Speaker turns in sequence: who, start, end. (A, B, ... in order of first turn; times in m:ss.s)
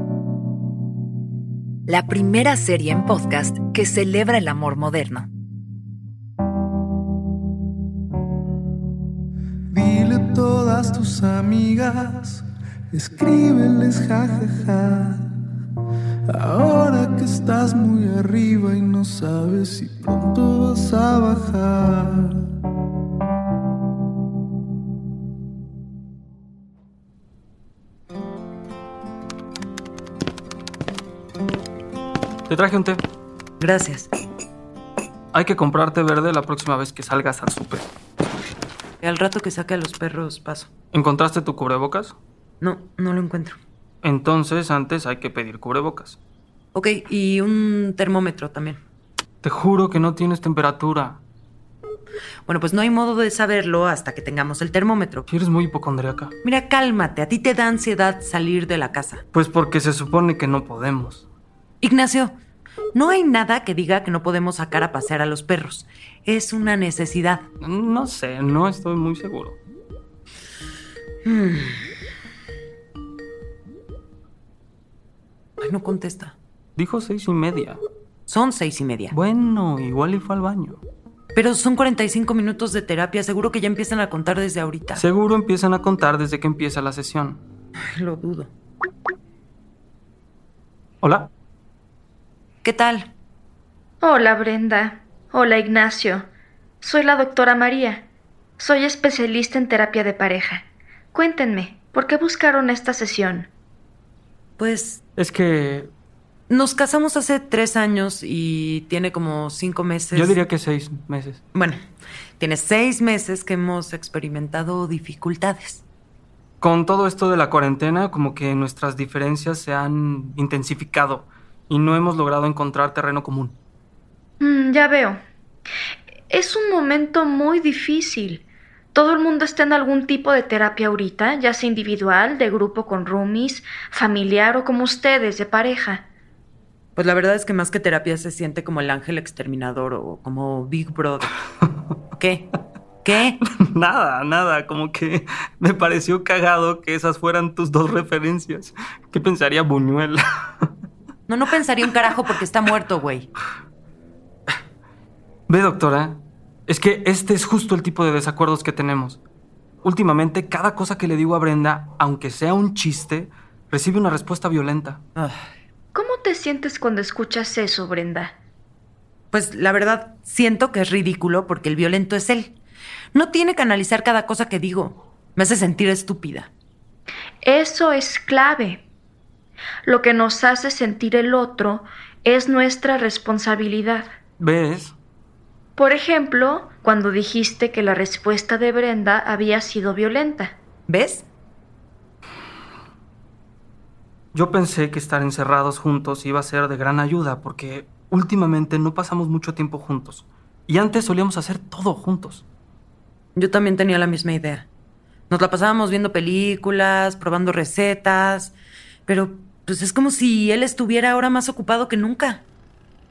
0:01.9-0:05.3 A
0:09.7-0:15.2 B
0:16.3-0:22.4 B
0:32.5-0:33.0 C
0:33.6-0:34.1 D
0:35.3-0:37.9 C
0:39.0-0:40.7 D
0:40.9-0:42.2 C
0:42.6-0:43.6 D
0:44.0-0:46.2 C
0:46.7-0:48.8 D
0:49.4-0:51.2 C
0:52.5-0:55.3 D
0:55.3-0:56.3 C
0:56.4-0:59.2 D
0:59.3-1:01.2 C
1:01.8-1:02.4 D
1:02.9-1:07.4 D
1:07.6-1:09.6 C
1:11.2-1:11.8 D
1:15.6-1:16.4 D
1:16.8-1:17.8 C
1:18.3-1:19.2 D
1:19.1-1:20.8 C
1:21.3-1:25.0 D
1:25.0-1:27.4 C
1:27.9-1:28.5 D
1:31.0-1:31.3 C
1:32.6-1:33.1 D
1:34.0-1:36.3 E
1:36.8-1:38.0 E
1:38.6-1:43.5 E
1:44.6-1:45.0 D
1:45.2-1:45.9 C
1:46.5-1:50.4 D
1:50.1-1:51.4 C
1:52.4-1:55.8 D
1:56.6-2:03.6 C
2:04.4-2:05.2 E
2:06.3-2:16.0 E
2:17.0-2:21.3 D
2:22.2-2:22.5 D
2:23.0-2:23.4 D
2:23.4-2:30.7 C
2:31.3-2:33.3 D
2:35.5-2:39.2 C
2:39.8-2:45.0 C
2:45.9-2:48.3 E
2:49.3-2:52.6 D
2:53.1-2:56.5 D
2:57.4-2:58.8 E
2:59.8-3:04.1 E
3:04.4-3:05.0 C
3:05.8-3:10.6 E
3:10.9-3:11.3 D
3:14.3-3:22.4 C
3:23.4-3:24.7 D
3:25.3-3:28.5 D
3:29.1-3:32.4 D